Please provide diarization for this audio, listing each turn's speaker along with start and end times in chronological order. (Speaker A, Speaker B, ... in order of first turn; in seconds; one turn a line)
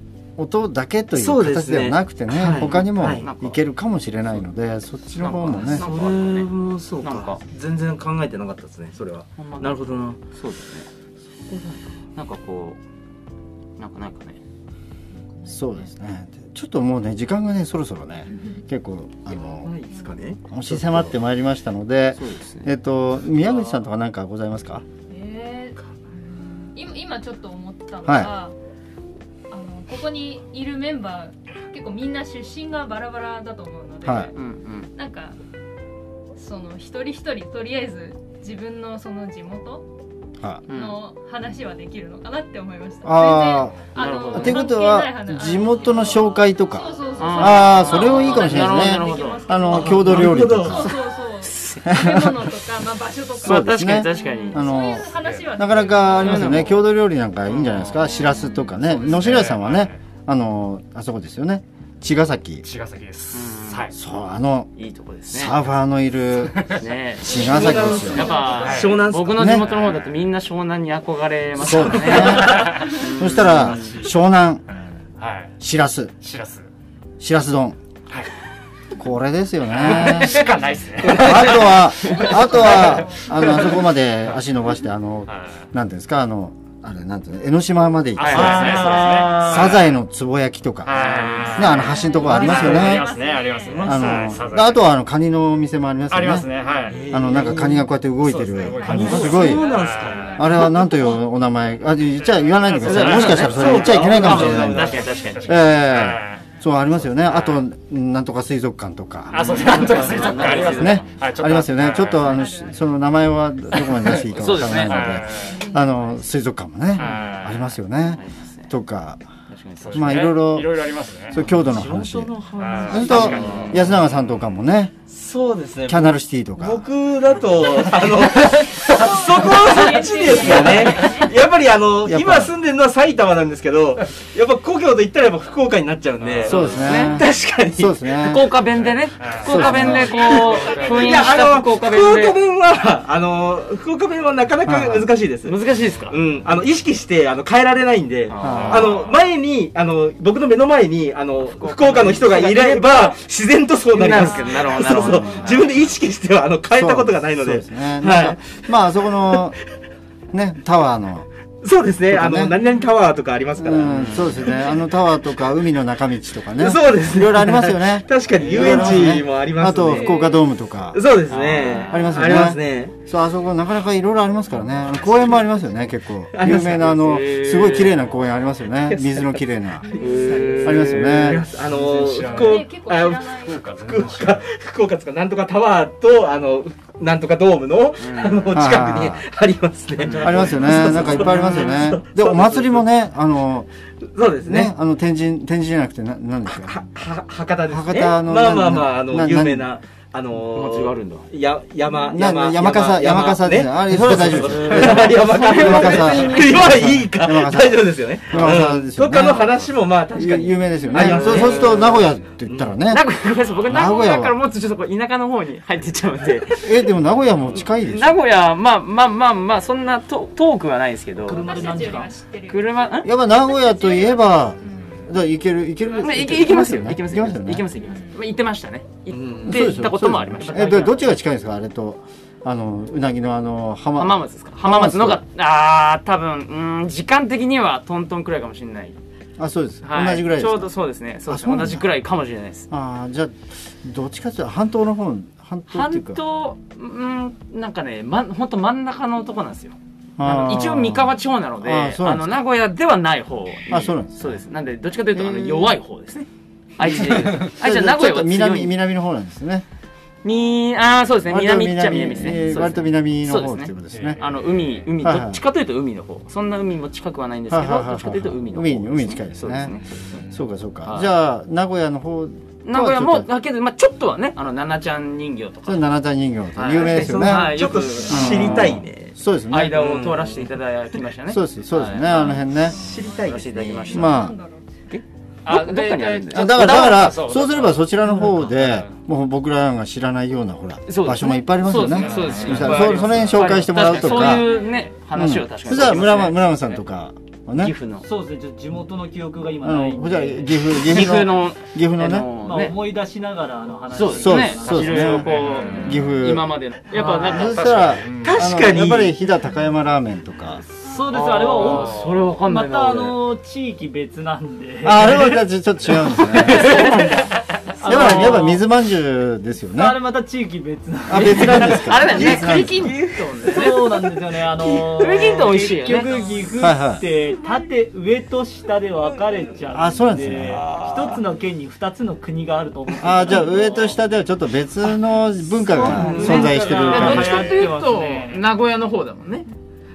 Speaker A: 0.4-5.9
Speaker B: 1.1-3.3
Speaker C: 2.5-3.6
Speaker C: 5.2-7.4
Speaker B: 5.6-10.2
Speaker C: 9.4-10.9
Speaker B: 11.5-11.8
Speaker C: 12.2-12.8
Speaker C: 13.8-14.4
Speaker A: 15.5-19.8
Speaker B: 19.6-21.1
Speaker A: 20.5-24.8
Speaker C: 22.1-22.7
Speaker C: 23.3-23.8
Speaker D: 25.1-25.8
Speaker D: 26.6-28.6
Speaker A: 28.1-28.3
Speaker D: 29.5-34.3
Speaker A: 34.0-34.3
Speaker C: 34.3-34.9
Speaker D: 34.9-35.4
Speaker D: 36.4-39.9
Speaker C: 40.7-41.0
Speaker D: 40.7-56.8
Speaker A: 43.0-50.9
Speaker C: 44.0-44.7
Speaker C: 47.2-49.5
Speaker B: 49.7-50.9
Speaker C: 50.8-52.2
Speaker A: 51.9-52.4
Speaker C: 53.4-54.6
Speaker A: 53.4-62.7
Speaker E: 55.1-56.8
Speaker C: 56.1-56.7
Speaker C: 57.5-59.3
Speaker D: 58.1-58.8
Speaker E: 59.0-60.0
Speaker E: 62.6-63.9
Speaker C: 63.3-63.9
Speaker A: 63.9-64.7
Speaker C: 64.8-65.5
Speaker A: 65.3-68.3
Speaker E: 66.4-66.9
Speaker C: 66.8-74.0
Speaker B: 67.3-69.7
Speaker E: 68.1-69.0
Speaker A: 69.3-69.7
Speaker E: 69.6-70.1
Speaker A: 71.6-74.6
Speaker E: 72.3-73.0
Speaker E: 73.6-74.1
Speaker E: 75.2-75.5
Speaker A: 75.6-76.2
Speaker E: 76.2-76.7
Speaker A: 77.2-77.8
Speaker A: 79.0-80.5
Speaker E: 79.7-81.8
Speaker B: 81.0-81.4
Speaker A: 81.0-93.2
Speaker D: 82.1-83.3
Speaker E: 85.3-85.7
Speaker C: 88.2-89.7
Speaker B: 88.3-89.8
Speaker E: 88.3-89.8
Speaker E: 90.8-94.8
Speaker C: 91.0-92.1
Speaker D: 91.3-94.5
Speaker B: 92.2-93.0
Speaker B: 93.7-94.4
Speaker A: 93.7-96.5
Speaker E: 96.1-97.0
Speaker D: 96.6-97.2
Speaker B: 96.9-97.9
Speaker A: 97.1-99.7
Speaker E: 98.2-100.4
Speaker D: 98.5-101.2
Speaker B: 98.9-100.7
Speaker A: 100.4-119.2
Speaker E: 102.2-106.4
Speaker B: 102.8-105.0
Speaker C: 103.0-105.5
Speaker D: 105.0-105.7
Speaker E: 107.2-107.6
Speaker E: 109.3-112.2
Speaker C: 109.4-111.2
Speaker D: 109.5-110.5
Speaker B: 109.7-110.6
Speaker D: 111.2-112.9
Speaker C: 111.8-112.4
Speaker C: 113.9-115.4
Speaker E: 114.0-115.6
Speaker D: 115.4-116.3
Speaker C: 117.0-118.7
Speaker E: 117.0-117.6
Speaker C: 119.5-120.4
Speaker E: 119.8-121.4
Speaker A: 119.9-122.3
Speaker C: 121.3-121.6
Speaker B: 121.4-123.9
Speaker E: 122.6-124.0
Speaker D: 122.7-123.1
Speaker A: 122.9-124.9
Speaker C: 123.0-124.2
Speaker B: 125.1-138.3
Speaker A: 125.9-126.8
Speaker D: 127.5-128.2
Speaker E: 127.9-128.6
Speaker D: 128.9-131.3
Speaker A: 130.4-131.1
Speaker A: 132.0-132.5
Speaker C: 136.4-137.3
Speaker A: 136.5-138.5
Speaker C: 138.2-142.4
Speaker E: 139.2-141.4
Speaker A: 139.4-140.2
Speaker B: 140.0-145.6
Speaker D: 140.1-141.1
Speaker A: 144.7-145.1
Speaker C: 145.4-146.2
Speaker E: 145.8-146.5
Speaker B: 146.1-158.6
Speaker C: 148.3-148.9
Speaker A: 148.4-148.9
Speaker E: 148.4-149.2
Speaker C: 151.4-153.2
Speaker C: 153.9-155.7
Speaker D: 154.2-155.7
Speaker A: 156.7-159.6
Speaker A: 160.3-161.3
Speaker B: 161.6-164.8
Speaker A: 162.1-162.6
Speaker A: 163.6-171.0
Speaker C: 163.8-164.6
Speaker B: 166.5-170.2
Speaker C: 168.4-169.0
Speaker D: 169.9-170.5
Speaker B: 170.9-172.9
Speaker C: 171.3-172.4
Speaker A: 171.9-179.9
Speaker E: 174.6-175.4
Speaker B: 176.3-177.2
Speaker C: 176.9-178.2
Speaker B: 178.9-179.4
Speaker D: 179.9-180.3
Speaker B: 179.9-192.9
Speaker C: 180.0-181.3
Speaker E: 180.1-180.9
Speaker A: 180.6-181.5
Speaker E: 181.5-182.6
Speaker D: 182.3-183.6
Speaker E: 183.4-184.5
Speaker C: 188.0-188.6
Speaker A: 188.5-189.2
Speaker E: 190.0-191.3
Speaker A: 190.2-193.7
Speaker C: 190.9-191.8
Speaker B: 194.0-194.7
Speaker A: 194.4-196.8
Speaker B: 196.5-212.7
Speaker A: 197.7-199.7
Speaker C: 200.5-201.3
Speaker A: 202.1-209.6
Speaker C: 204.5-206.8
Speaker C: 208.3-208.6
Speaker A: 210.1-213.1
Speaker C: 210.9-212.0
Speaker C: 212.9-216.9
Speaker A: 213.7-214.4
Speaker A: 216.6-218.2
Speaker C: 217.5-221.6
Speaker F: 221.2-222.1
Speaker D: 221.3-225.1
Speaker C: 222.5-223.1
Speaker A: 223.0-227.7
Speaker D: 225.8-226.3
Speaker C: 226.0-231.1
Speaker D: 227.8-228.2
Speaker B: 229.1-229.7
Speaker A: 229.4-235.2
Speaker C: 234.0-239.0
Speaker A: 239.4-240.7
Speaker C: 239.8-242.7
Speaker A: 241.3-241.9
Speaker A: 242.7-246.2
Speaker C: 245.7-258.8
Speaker A: 250.2-252.4
Speaker A: 253.7-254.4
Speaker A: 255.2-255.8
Speaker A: 256.8-259.6
Speaker C: 260.2-270.3
Speaker A: 261.3-264.2
Speaker E: 263.9-264.2
Speaker A: 265.0-265.4
Speaker A: 267.5-269.8
Speaker A: 270.3-273.3
Speaker C: 270.8-271.1
Speaker C: 272.6-275.8
Speaker A: 275.7-279.8
Speaker C: 276.6-278.8
Speaker B: 276.8-279.1
Speaker C: 279.5-282.4
Speaker B: 279.7-281.0
Speaker A: 281.3-282.8
Speaker D: 282.1-284.8
Speaker B: 282.7-284.1
Speaker C: 283.2-284.2
Speaker A: 283.9-284.4
Speaker E: 285.4-288.9
Speaker C: 285.5-287.2
Speaker A: 286.3-294.5
Speaker B: 286.6-287.1
Speaker C: 290.9-296.8
Speaker E: 291.8-293.6
Speaker A: 295.1-297.7
Speaker C: 297.6-298.1
Speaker F: 298.0-300.6
Speaker A: 299.6-302.3
Speaker C: 300.8-302.8
Speaker F: 302.4-305.8
Speaker C: 303.9-308.1
Speaker A: 304.2-306.5
Speaker E: 304.6-306.0
Speaker F: 306.9-307.3
Speaker A: 307.0-310.6
Speaker E: 308.0-308.4
Speaker B: 308.2-309.2
Speaker F: 310.7-315.4
Speaker C: 311.1-313.2
Speaker E: 311.7-312.2
Speaker A: 314.8-316.9
Speaker F: 316.3-318.6
Speaker C: 316.3-317.2
Speaker C: 317.8-318.6
Speaker A: 317.9-320.0
Speaker F: 319.8-322.6
Speaker A: 321.1-323.0
Speaker C: 321.1-326.2
Speaker B: 322.1-323.8
Speaker F: 323.5-333.9
Speaker A: 326.6-327.0
Speaker A: 329.7-330.6
Speaker B: 330.6-331.2
Speaker A: 333.0-337.5
Speaker C: 335.7-339.5
Speaker F: 335.7-338.4
Speaker B: 335.8-336.5